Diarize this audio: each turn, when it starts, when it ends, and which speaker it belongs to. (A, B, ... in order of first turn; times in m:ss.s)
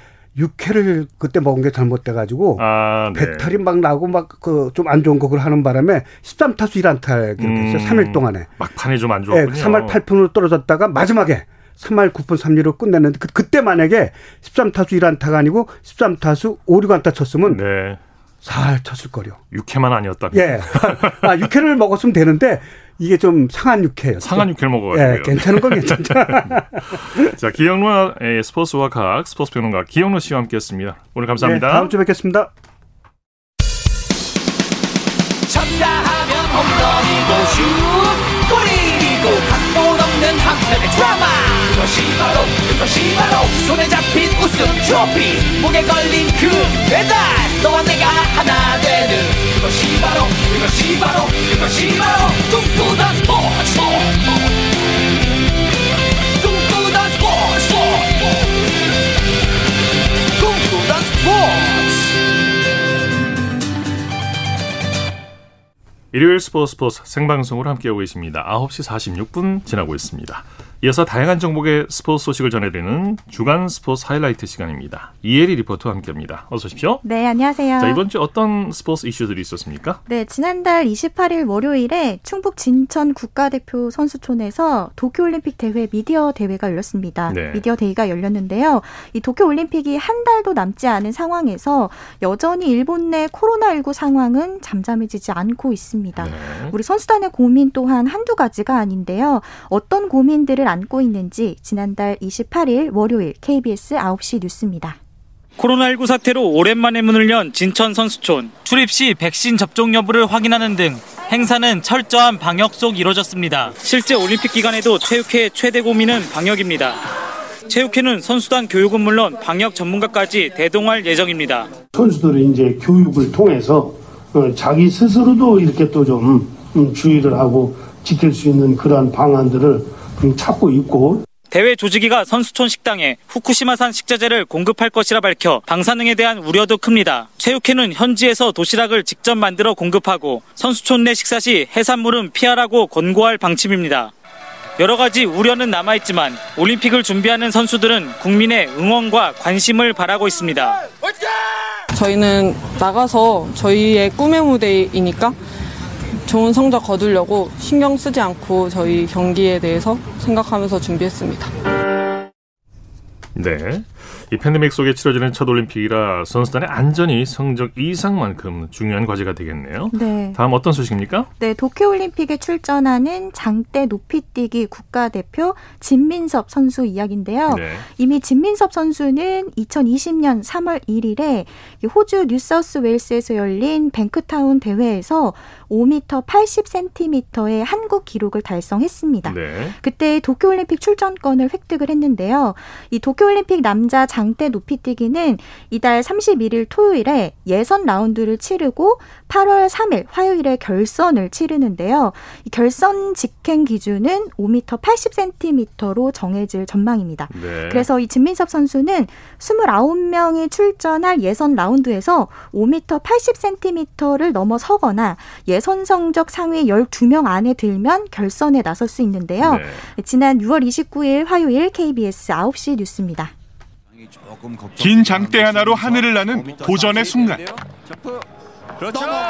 0:00.4-0:08.5 A
0:02.6-0:03.6 B
0:07.4-0:10.0 B
0:09.3-0:17.6 A
0:17.5-0:18.0 B
0:18.4-0:19.4 A
0:19.5-0:21.3 B
0:20.3-0:27.3 A
0:24.2-0:31.9 B
0:31.4-0:32.5 A
0:35.5-0:54.2 C
0:56.4-0:58.5 C
1:00.4-1:02.1 C
1:06.1-1:17.0 B
1:17.0-1:18.0 D
1:17.8-1:20.0 B
1:20.1-1:45.0 D
1:27.3-1:27.6 B
1:36.2-1:36.8 B
1:45.6-1:57.0 E
1:57.7-2:01.7 E
2:01.9-2:11.2 F
2:11.5-2:24.1 E
2:24.8-2:30.8 E
2:31.9-2:35.4 G
2:36.2-2:41.5 G
2:43.4-2:51.3 B
2:49.9-2:50.4 D
2:51.4-3:43.3 D
2:57.5-2:57.8 B
3:09.2-3:09.8 B
3:27.3-3:27.9 B
3:39.4-3:39.8 B
3:44.8-3:47.4 H